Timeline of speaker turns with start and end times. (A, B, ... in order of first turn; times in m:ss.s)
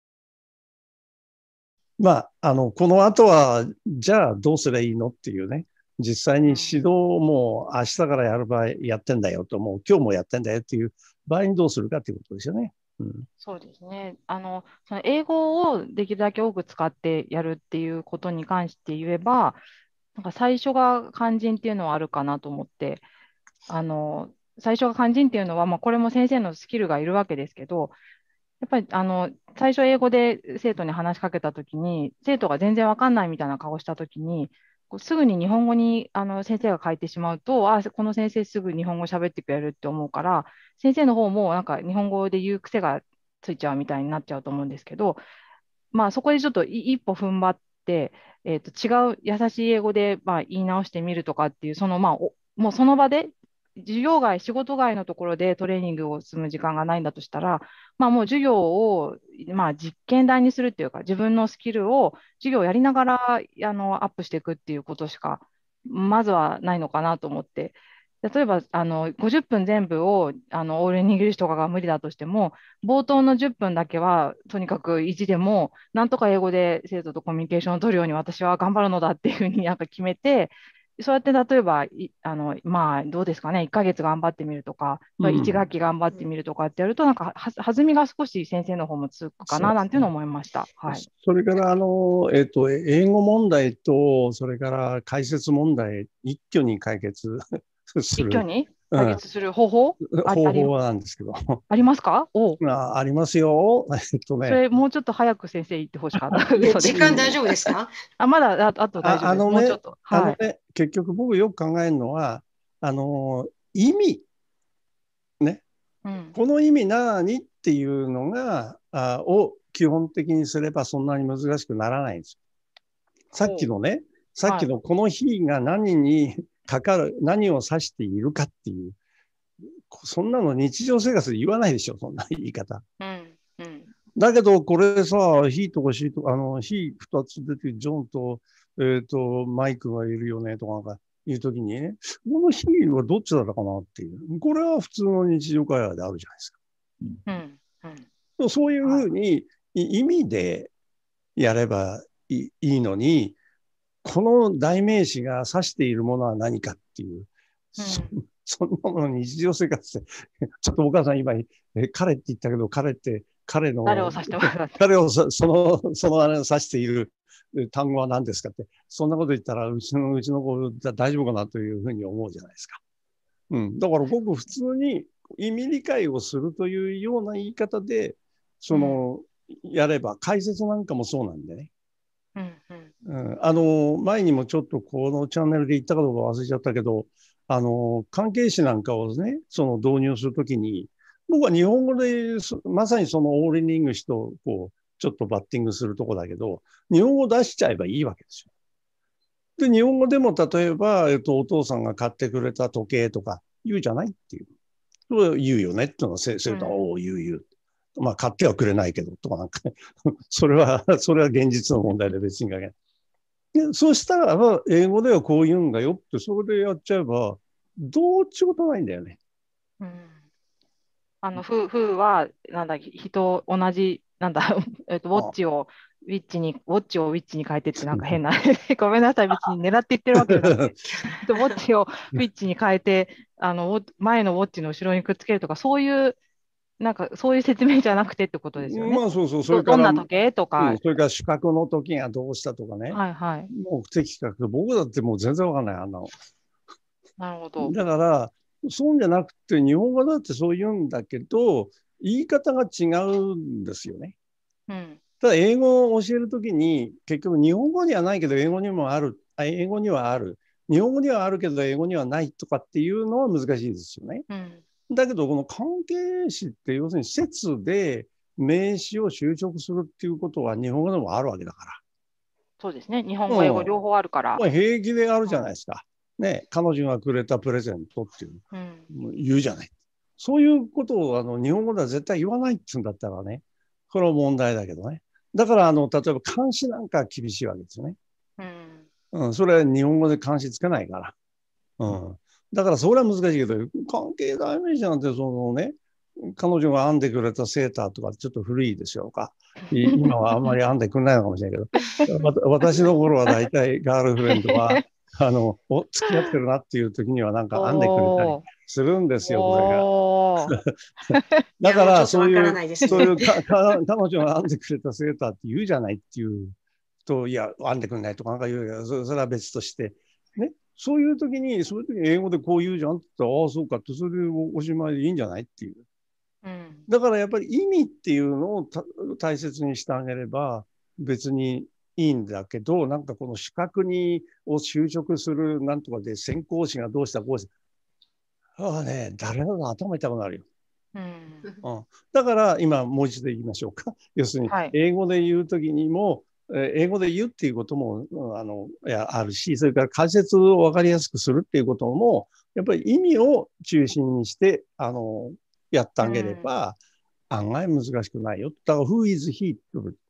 0:02.0-0:13.2 A
0:06.4-0:06.8 B
0:13.4-0:19.6 B
0:20.1-0:23.0 B
0:23.7-0:28.0 B
0:28.6-0:45.2 B
0:45.9-1:31.0 B
1:25.2-1:25.6 A
1:29.4-1:30.1 A
1:30.9-1:39.2 A
1:38.2-1:40.7 B
1:40.1-1:41.6 A
1:41.7-1:42.6 B
1:42.6-1:44.6 A
1:44.4-1:47.3 B
1:46.5-1:47.9 C
1:46.9-1:47.4 A
1:48.2-1:50.4 B
1:49.0-1:54.2 A
1:56.0-1:56.4 B
1:56.3-2:02.4 A
2:03.3-2:09.0 A
2:03.4-2:03.7 B
2:09.9-2:12.8 A
2:13.0-2:13.9 B
2:14.2-2:26.6 A
2:27.2-2:28.1 B
2:28.4-2:30.7 A
2:28.8-2:29.1 B
2:31.4-2:33.4 A
2:34.0-2:52.8 A
2:37.8-2:38.2 B
2:43.8-2:44.8 B
2:53.5-3:01.7 A
2:58.7-2:59.0 B
3:02.4-3:02.9 B
3:03.0-3:18.5 A
3:19.6-3:24.5 A
3:25.1-3:27.4 A
3:26.5-3:26.9 B
3:28.0-3:32.7 A
3:33.5-3:39.2 A
3:39.8-3:40.2 B
3:41.2-3:56.2 B
3:50.1-3:50.7 A
3:50.8-3:51.5 C
3:56.8-4:00.8 B
3:58.6-4:00.0 A
4:00.6-4:06.1 A
4:02.9-4:03.5 B
4:07.2-4:07.7 B
4:07.6-4:14.1 A
4:14.7-4:15.0 B
4:15.2-4:24.2 A
4:24.3-4:24.6 B
4:24.9-4:31.8 A
4:32.6-4:34.4 B
4:33.3-4:33.7 A
4:34.4-4:48.0 A
4:35.2-4:35.5 B
4:38.5-4:38.9 B
4:48.4-4:48.9 B
4:49.1-4:51.1 A
4:51.8-5:09.9 A
4:59.8-5:00.6 B
5:02.7-5:03.4 B
5:04.3-5:04.8 B
5:07.5-5:08.4 B
5:09.2-5:10.5 B
5:10.4-5:10.7 A
5:11.1-5:11.4 B
5:11.6-5:16.5 A
5:11.6-5:13.2 C
5:12.9-5:13.2 B
5:17.0-5:25.8 A
5:26.4-5:26.9 B
5:26.9-5:37.5 A
5:38.6-5:40.4 A
5:40.9-5:41.5 B
5:41.6-5:56.8 A
5:44.4-5:44.7 B
5:56.0-5:56.5 B
5:57.3-6:00.0 A